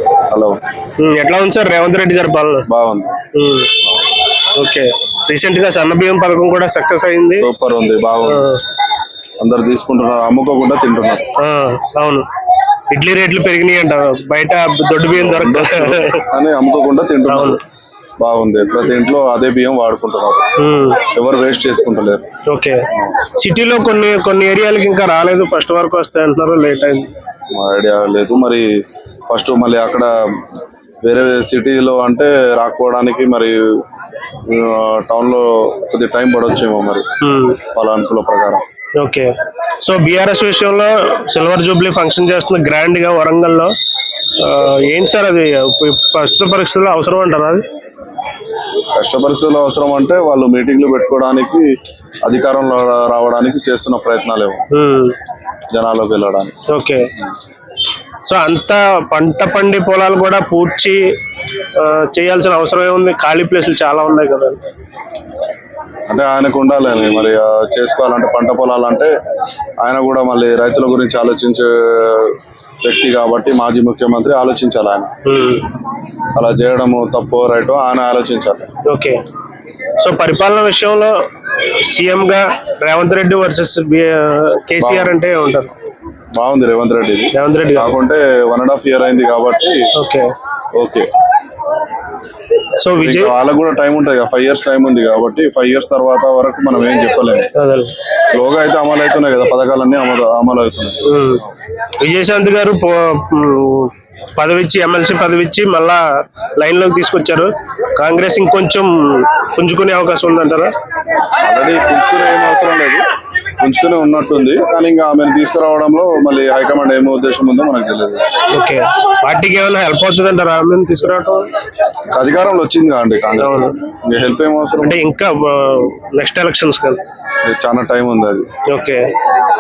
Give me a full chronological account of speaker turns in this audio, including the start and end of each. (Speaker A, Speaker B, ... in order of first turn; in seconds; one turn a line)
Speaker A: 0.3-0.6
Speaker B: 1.0-2.7
Speaker A: 2.7-3.2
Speaker B: 3.3-3.9
Speaker B: 4.4-7.5
Speaker A: 7.4-8.5
Speaker B: 8.2-8.6
Speaker A: 9.4-11.2
Speaker B: 11.4-12.3
Speaker B: 12.9-16.3
Speaker A: 15.1-17.6
Speaker B: 17.3-17.6
Speaker A: 18.2-20.4
Speaker B: 20.6-21.0
Speaker A: 21.1-22.2
Speaker B: 22.5-27.1
Speaker A: 27.5-28.6
Speaker A: 29.3-30.4
Speaker A: 31.0-33.7
Speaker A: 34.5-37.0
Speaker B: 37.2-37.6
Speaker A: 37.6-38.6
Speaker B: 39.0-43.7
Speaker B: 44.4-47.6
Speaker A: 48.9-51.7
Speaker A: 52.2-54.6
Speaker B: 54.7-55.1
Speaker A: 55.7-56.5
Speaker B: 56.7-57.1
Speaker B: 58.2-61.1
Speaker B: 61.8-64.6
Speaker A: 66.1-69.1
Speaker A: 69.8-75.1
Speaker B: 75.2-75.7
Speaker A: 76.3-78.7
Speaker B: 78.8-79.2
Speaker B: 80.0-85.7
Speaker A: 84.8-85.2
Speaker A: 86.3-89.9
Speaker B: 87.3-88.0
Speaker B: 89.9-90.3
Speaker A: 90.8-91.1
Speaker B: 92.8-93.3
Speaker A: 93.0-97.5
Speaker B: 97.5-97.9
Speaker A: 98.3-101.5
Speaker B: 101.0-101.4
Speaker B: 102.0-110.7
Speaker A: 111.4-113.1
Speaker A: 113.6-118.2
Speaker B: 118.5-121.5
Speaker A: 122.1-125.0
Speaker B: 123.4-123.7
Speaker B: 124.8-127.0
Speaker A: 127.4-128.5
Speaker B: 128.7-129.1